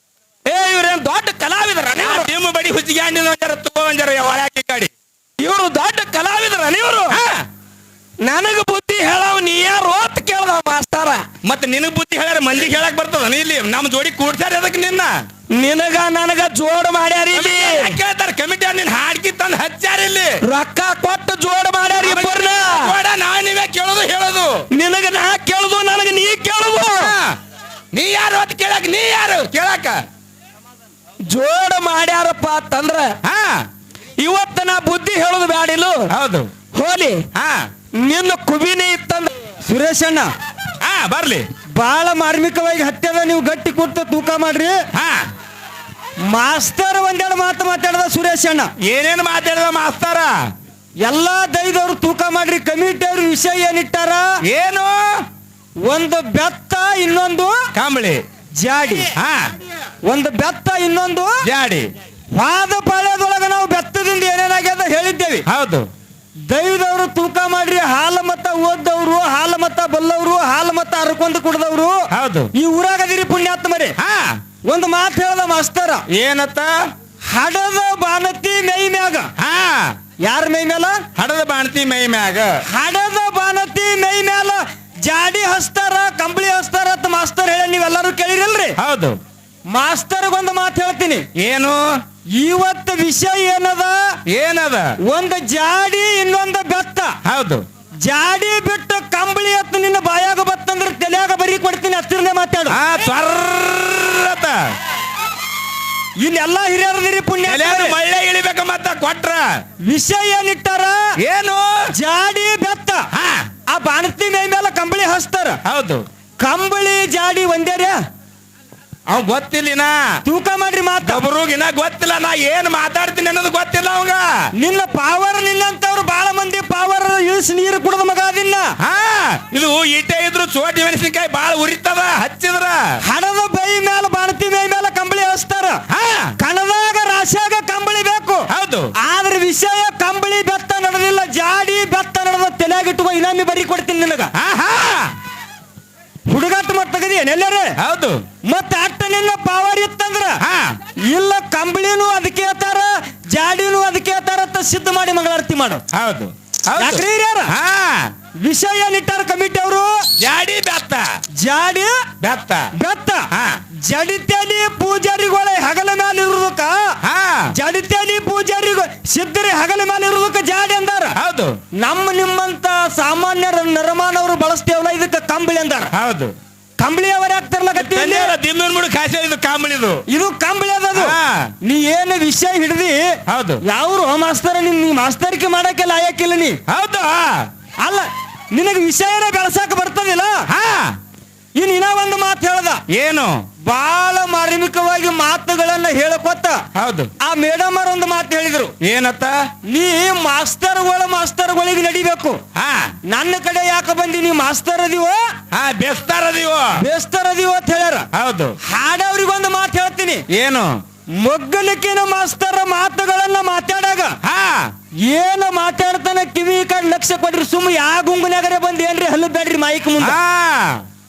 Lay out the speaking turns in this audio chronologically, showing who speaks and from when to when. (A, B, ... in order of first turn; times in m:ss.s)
0:00.4-0:02.3 A
0:02.0-0:04.9 B
0:05.4-0:07.2 A
0:07.1-0:07.4 B
0:08.2-0:11.2 A
0:11.4-0:15.1 B
0:15.5-0:18.0 A
0:17.3-0:20.4 B
0:20.4-0:22.9 A
0:22.0-0:24.5 B
0:24.7-0:27.1 A
0:27.0-0:27.4 B
0:27.9-0:30.0 B
0:31.3-0:33.2 A
0:33.2-0:33.7 B
0:34.2-0:36.1 A
0:36.1-0:36.5 B
0:36.7-0:37.2 A
0:37.3-0:37.6 B
0:38.0-0:39.3 A
0:39.6-0:40.3 C
0:40.8-0:41.4 B
0:41.7-0:44.8 C
0:44.9-0:45.2 B
0:46.2-0:48.7 C
0:48.8-0:50.3 B
0:51.0-0:54.3 C
0:54.4-0:55.2 B
0:55.8-0:57.7 C
0:57.7-0:58.2 B
0:58.6-0:59.1 C
0:59.1-0:59.5 B
1:00.0-1:01.4 C
1:01.4-1:01.9 B
1:02.3-1:05.4 C
1:05.5-1:05.9 B
1:06.5-1:13.9 C
1:12.1-1:12.5 B
1:14.0-1:14.4 B
1:14.7-1:16.0 C
1:16.1-1:16.7 B
1:17.2-1:19.3 C
1:19.4-1:20.0 B
1:20.2-1:21.0 C
1:21.2-1:22.5 B
1:22.7-1:28.8 C
1:28.8-1:29.2 B
1:29.7-1:31.2 C
1:31.4-1:32.0 B
1:32.3-1:34.2 C
1:34.3-1:34.9 B
1:35.0-1:37.2 C
1:37.2-1:37.6 B
1:38.0-1:42.8 C
1:42.7-1:44.7 B
1:46.2-1:48.0 C
1:47.4-1:49.4 B
1:49.8-1:51.1 C
1:51.2-1:51.7 B
1:51.9-1:53.0 C
1:53.1-1:53.4 B
1:53.7-1:55.6 C
1:55.6-1:56.0 B
1:56.4-1:58.0 C
1:59.1-2:00.0 B
2:00.2-2:01.2 C
2:01.0-2:04.3 B
2:04.6-2:08.7 C
2:08.8-2:12.9 B
2:13.0-2:15.8 C
2:15.9-2:16.3 B
2:16.4-2:18.5 C
2:18.5-2:18.9 B
2:19.0-2:24.3 C
2:24.3-2:25.1 B
2:26.3-2:27.7 C
2:27.8-2:28.2 B
2:28.4-2:30.4 C
2:30.4-2:30.8 B
2:31.0-2:35.8 C
2:35.9-2:38.1 B
2:36.8-2:37.5 C
2:38.4-2:40.0 C
2:40.2-2:41.1 B
2:41.4-2:42.0 C
2:42.2-2:42.7 B
2:42.7-2:43.3 C
2:43.3-2:43.6 B
2:43.8-2:46.9 C
2:47.0-2:47.4 B
2:47.5-2:51.2 C
2:51.2-2:51.6 B
2:51.7-2:55.9 C
2:55.9-2:56.3 B
2:56.8-2:58.3 C
2:57.8-3:00.0 B
3:00.1-3:06.6 C
3:00.9-3:01.5 B
3:03.3-3:03.6 B
3:06.7-3:07.5 B
3:07.8-3:10.4 C
3:10.5-3:11.0 B
3:11.5-3:12.8 C
3:12.9-3:13.4 B
3:13.6-3:16.6 C
3:16.7-3:17.1 B
3:17.2-3:18.7 C
3:18.8-3:19.4 B
3:19.6-3:22.4 C
3:22.5-3:22.9 B
3:23.0-3:25.3 C
3:25.5-3:26.6 B
3:26.8-3:28.1 C
3:28.1-3:28.5 B
3:28.6-3:30.2 C
3:30.3-3:30.8 B
3:31.2-3:34.2 C
3:34.2-3:34.7 B
3:35.0-3:40.2 C
3:40.0-3:40.8 B